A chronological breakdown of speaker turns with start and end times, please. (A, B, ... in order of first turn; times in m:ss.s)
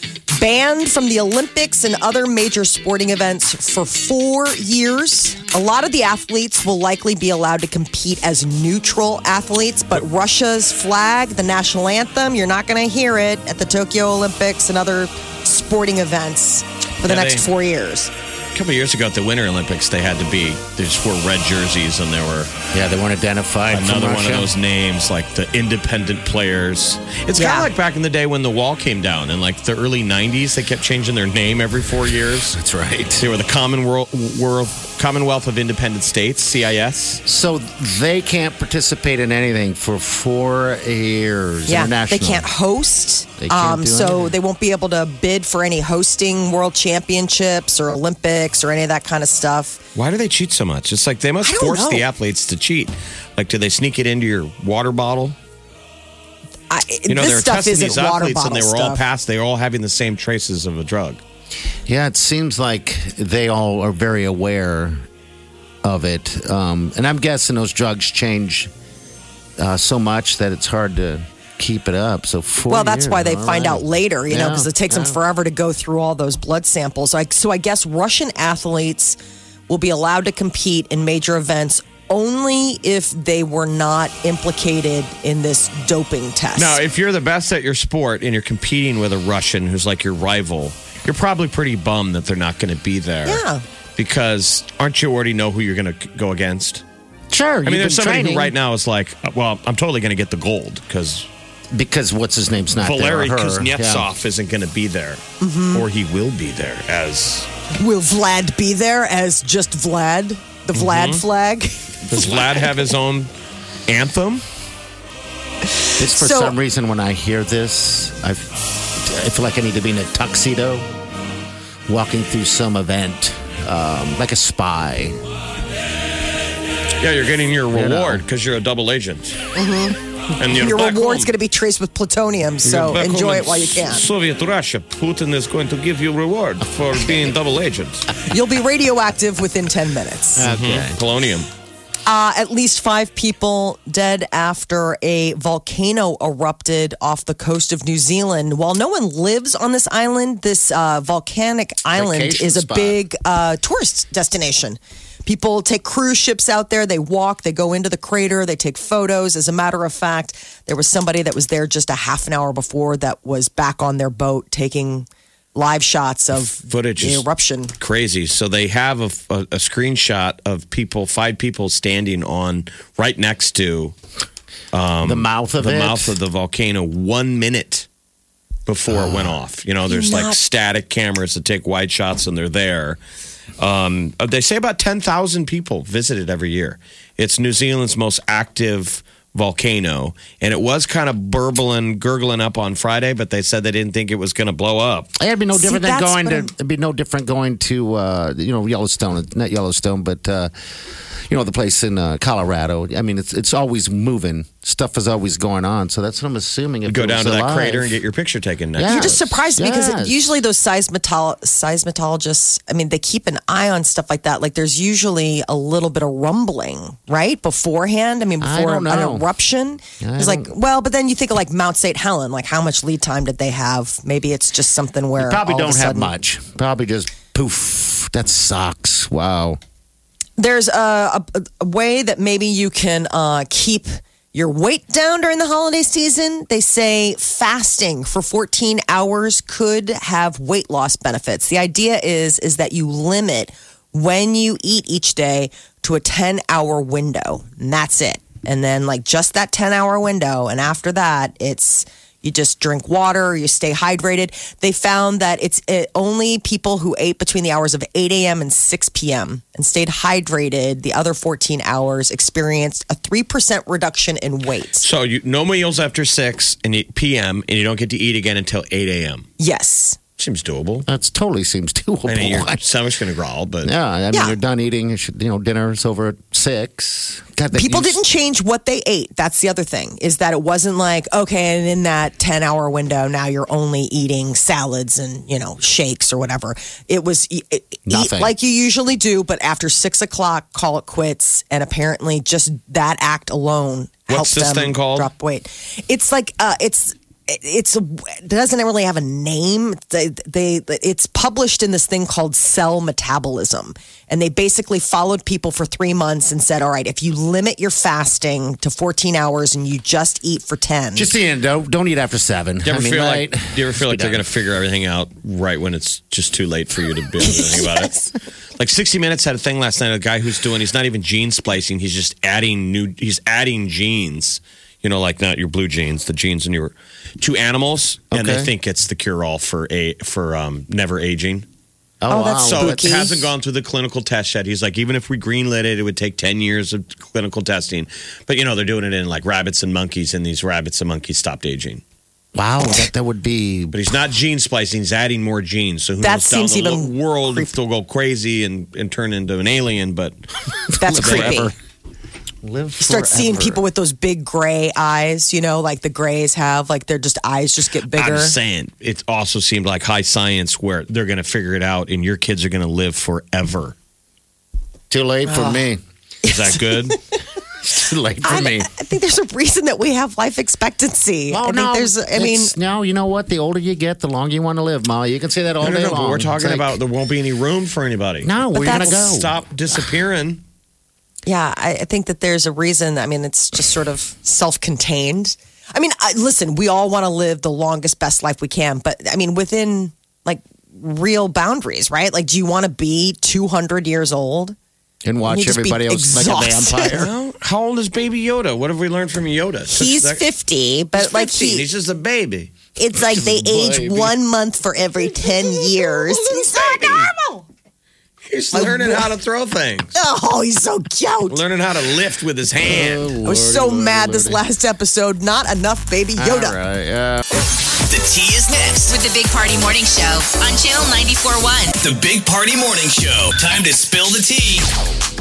0:00.3-0:18.1 A
0:17.0-0:17.5 B
0:18.5-0:22.5 B
0:22.7-0:24.5 C
0:23.7-0:32.6 B
0:27.4-0:27.7 A
0:32.5-0:33.3 C
0:33.2-0:37.2 B
0:37.2-0:42.5 C
0:41.7-0:49.8 A
0:43.4-0:44.4 C
0:50.0-0:55.4 B
0:51.4-0:52.1 A
0:56.7-0:59.0 A
0:57.1-1:01.2 B
1:01.9-1:05.0 C
1:05.8-1:08.7 C
1:09.6-1:15.2 C
1:12.6-1:19.2 A
1:19.7-1:26.8 A
1:26.6-1:33.4 B
1:33.2-1:33.6 A
1:34.0-1:36.8 B
1:37.3-1:38.6 C
1:37.6-1:41.3 B
1:41.7-1:44.1 C
1:42.8-1:47.5 B
1:45.4-1:45.9 A
1:47.8-1:52.7 A
1:50.7-1:51.2 B
1:52.1-1:53.3 B
1:53.9-1:54.4 B
1:56.0-1:56.6 A
1:56.0-2:00.9 C
2:01.9-2:05.2 C
2:07.0-2:09.4 B
2:07.7-2:08.2 C
2:09.6-2:14.1 A
2:10.4-2:11.3 B
2:12.6-2:18.1 B
2:18.3-2:20.5 A
2:20.4-2:21.0 C
2:20.4-2:21.5 B
2:22.1-2:47.7 A
2:31.9-2:33.0 C
2:46.4-2:47.2 B
2:47.8-2:54.0 B
2:54.7-2:57.9 B
2:55.0-2:56.2 C
2:58.7-3:03.0 B
2:58.9-2:59.4 C
2:59.9-3:00.4 A
3:03.6-3:15.1 B
3:15.2-3:20.5 C
3:15.5-3:16.5 A
3:21.3-3:28.0 C
3:26.8-3:29.4 B
3:28.8-3:30.2 C
3:28.9-3:46.1 A
3:38.4-3:39.3 C
3:40.0-3:40.5 C
3:45.2-3:49.6 C
3:50.4-4:24.9 A
4:24.8-4:29.3 B
4:29.4-4:30.0 A
4:30.2-4:30.9 B
4:30.9-4:32.6 C
4:32.1-4:33.7 B
4:33.6-4:38.0 C
4:34.1-4:34.4 A
4:37.5-5:11.1 A
4:47.9-4:48.3 C
4:54.1-4:55.1 B
5:11.0-5:14.3 C
5:12.6-5:17.9 B
5:17.2-5:18.1 A
5:18.6-5:31.5 B
5:28.1-5:28.5 C
5:32.0-5:33.0 C
5:32.1-5:33.3 A
5:32.4-5:41.8 B
5:42.4-5:43.8 C
5:43.7-5:50.2 B
5:46.0-5:47.5 A
5:50.8-5:51.5 C
5:50.8-5:51.5 A
5:50.8-5:51.5 B
5:52.4-5:53.6 C
5:52.8-5:58.4 A
5:57.9-6:03.8 B
6:04.9-6:05.8 C
6:05.2-6:05.7 A
6:06.2-6:07.1 A
6:06.2-6:07.0 B
6:07.6-6:08.7 C
6:08.2-6:12.6 A
6:11.3-6:16.7 C
6:15.6-6:20.4 B
6:18.2-6:19.4 C
6:18.6-6:19.0 A
6:21.2-6:34.6 A
6:35.0-6:37.1 C
6:35.3-6:37.0 A
6:36.9-6:40.2 B
6:39.7-6:41.7 A
6:40.9-6:42.5 B
6:42.8-6:47.4 A
6:43.0-6:44.2 C
6:46.5-6:47.1 B
6:48.3-6:49.9 B
6:48.5-6:49.1 A
6:50.0-6:51.4 A
6:51.3-6:53.1 B
6:52.6-6:54.4 C
6:53.2-6:56.6 A
6:56.2-6:57.2 C
6:57.9-6:58.9 D
6:58.9-7:01.8 E
7:01.8-7:04.7 D